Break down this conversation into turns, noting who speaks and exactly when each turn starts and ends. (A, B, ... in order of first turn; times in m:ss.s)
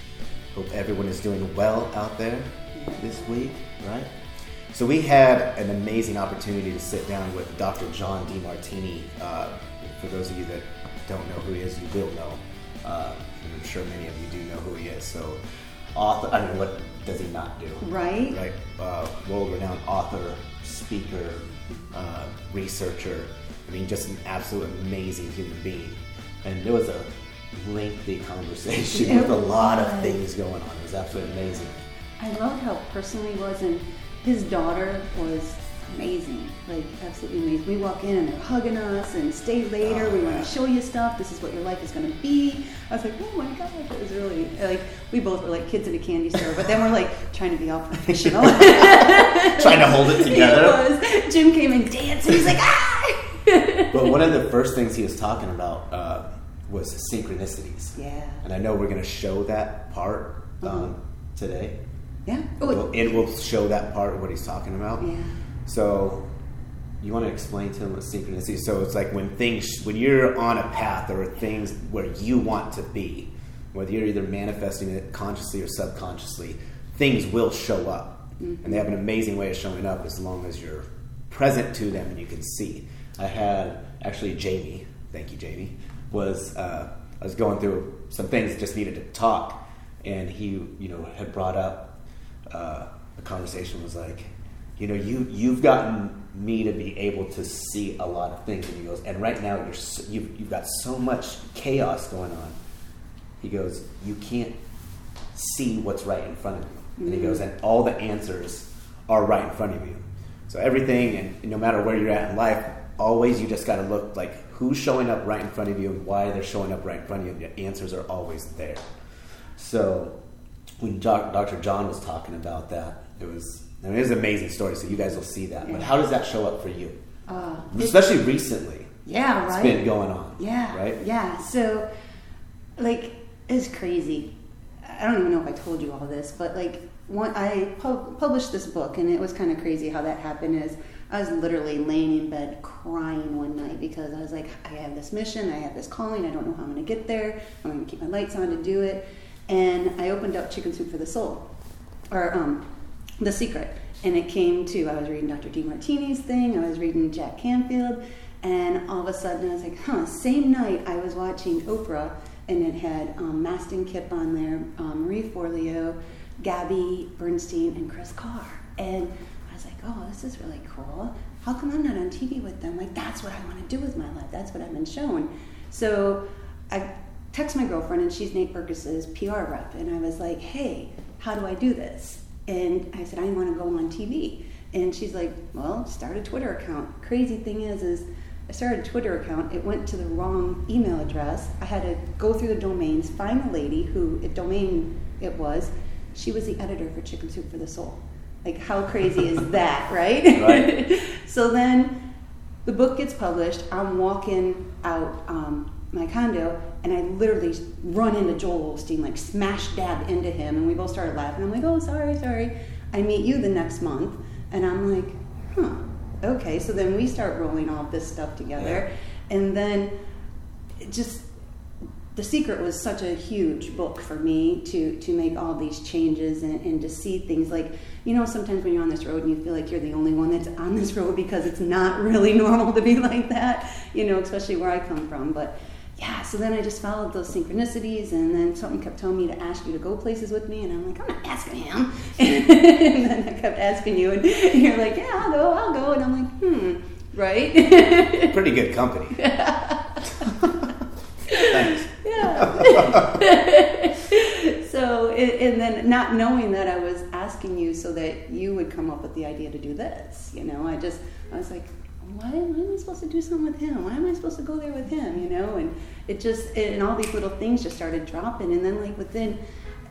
0:00.5-0:04.1 A
0:02.7-0:03.1 B
0:04.7-0:15.4 A
0:15.9-0:31.8 A
0:17.8-0:18.4 B
0:28.9-0:30.2 B
0:32.2-0:54.2 B
0:39.8-0:40.5 A
0:48.1-0:50.8 A
0:53.9-1:01.8 A
0:57.9-0:58.4 B
1:00.6-1:00.9 B
1:02.2-1:03.1 B
1:02.6-1:05.1 A
1:05.0-1:05.3 B
1:05.7-1:06.3 A
1:07.0-1:42.6 A
1:18.4-1:18.9 B
1:43.4-1:44.6 A
1:45.3-1:58.8 A
1:47.0-1:47.4 B
1:59.6-2:00.2 A
2:00.8-2:07.0 A
2:05.6-2:05.9 B
2:07.3-2:08.0 B
2:07.7-2:11.0 A
2:09.0-2:11.9 B
2:12.8-2:31.5 B
2:32.1-3:22.1 B
3:20.4-3:20.7 A
3:22.6-3:40.0 B
3:38.6-3:38.8 A
3:40.8-3:41.3 B
3:42.1-4:08.4 B
4:08.3-4:09.2 A
4:09.1-4:10.5 B
4:11.2-4:29.4 B
4:11.3-4:13.1 A